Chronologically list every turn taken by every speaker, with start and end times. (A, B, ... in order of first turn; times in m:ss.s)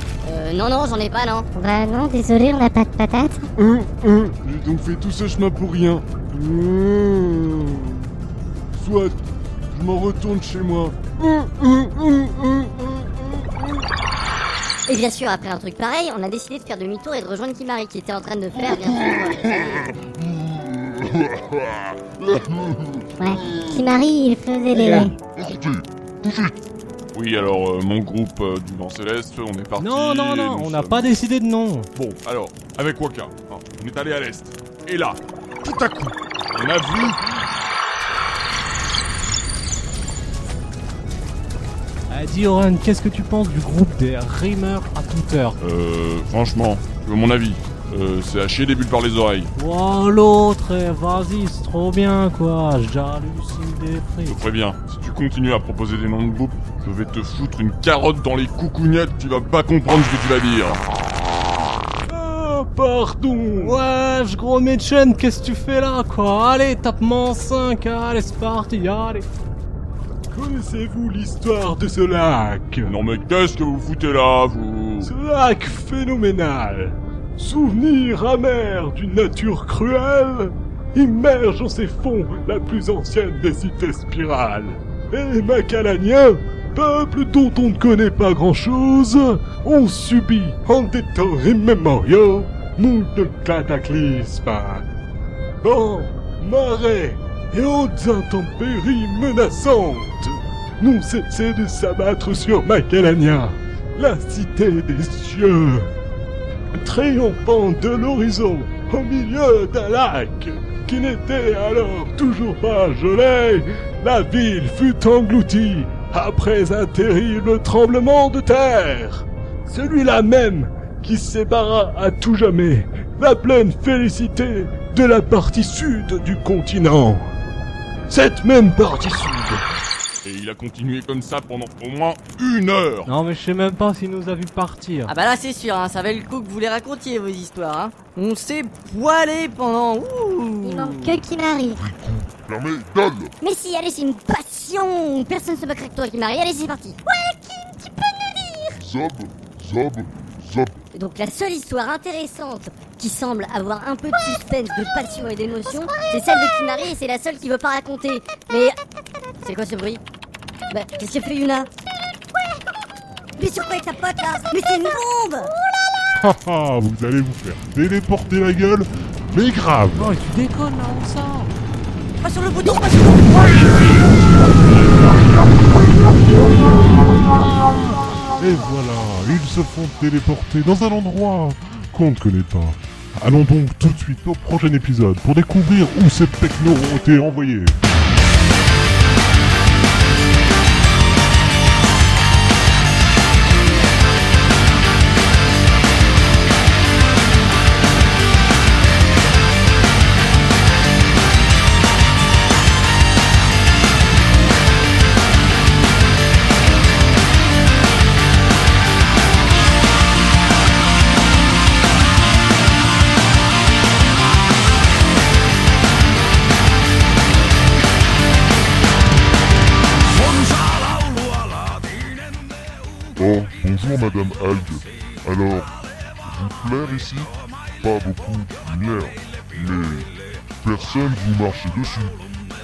0:00.2-0:01.5 A
0:01.5-0:03.5 B
0:03.6-0:07.9 C
0:08.8-0:09.2 C
0:09.7-0:11.0 C
0:14.9-0:19.9 A
0:19.9-0:23.8 D
0:23.2-0:25.1 B
0:24.7-0:26.6 D
0:27.1-0:31.0 C
0:29.8-0:31.9 E
0:31.9-0:37.2 C
0:42.1-0:45.6 E
0:45.6-0:49.5 C
0:49.6-0:54.4 E
0:54.3-1:00.8 C
1:02.1-1:03.7 F
1:03.6-1:09.3 E
1:10.3-1:12.9 F
1:12.8-1:15.1 C
1:15.0-1:34.8 F
1:35.6-1:45.9 F
1:46.8-2:07.3 F
2:08.1-2:09.6 F
2:10.2-2:13.1 C
2:13.0-2:15.1 E
2:15.1-2:21.2 G
2:20.6-2:21.8 B
2:21.8-2:23.3 D
2:23.4-2:28.8 A
2:28.7-2:30.8 D
2:30.9-2:38.8 A
2:35.7-2:36.1 B
2:39.4-2:40.0 A
2:40.7-2:41.7 A
2:43.4-2:45.5 A
2:46.2-2:50.1 H
2:49.9-2:51.5 E
2:52.2-2:53.7 A
2:58.4-3:07.8 H
3:43.2-3:50.1 D
3:50.6-3:52.2 D